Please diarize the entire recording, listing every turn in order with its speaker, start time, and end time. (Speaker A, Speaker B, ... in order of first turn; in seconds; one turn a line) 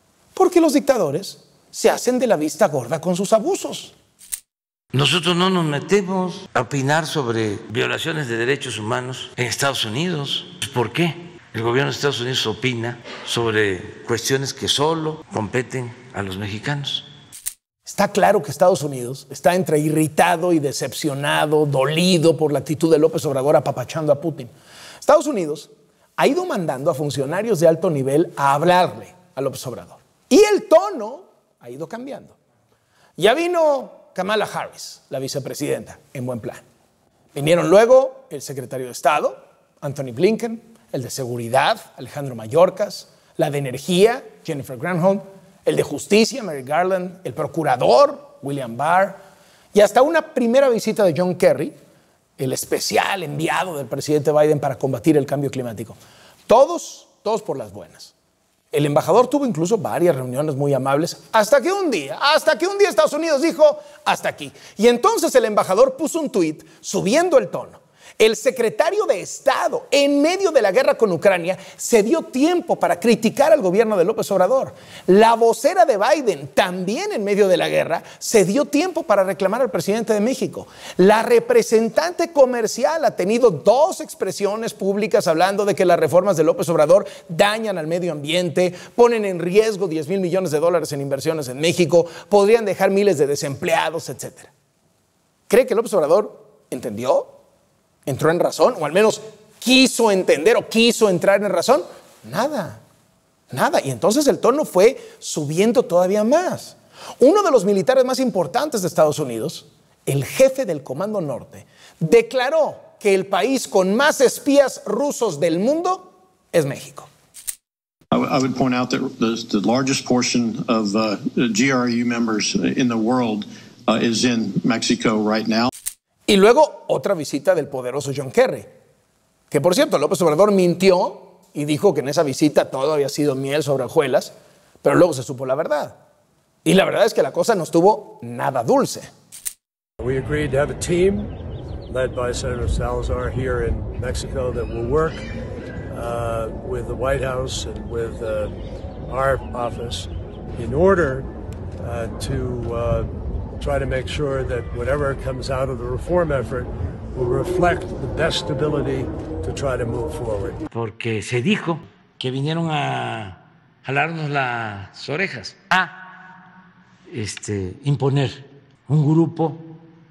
Speaker A: 0.3-3.9
Speaker B: 4.9-17.1
Speaker A: 17.9-32.4
Speaker A: 33.2-36.6
Speaker A: 37.3-49.2
Speaker A: 49.7-51.8
Speaker A: 52.4-58.1
Speaker A: 58.7-94.5
Speaker A: 95.5-97.3
Speaker A: 98.1-102.8
Speaker A: 103.5-117.1
Speaker C: 118.1-125.7
Speaker A: 126.3-128.7
Speaker A: 129.5-136.0
Speaker A: 136.7-139.1
Speaker D: 140.0-141.3
Speaker D: 141.9-145.2
Speaker D: 145.9-148.5
Speaker D: 149.1-160.6
Speaker B: 160.7-165.9
Speaker B: 167.1-169.7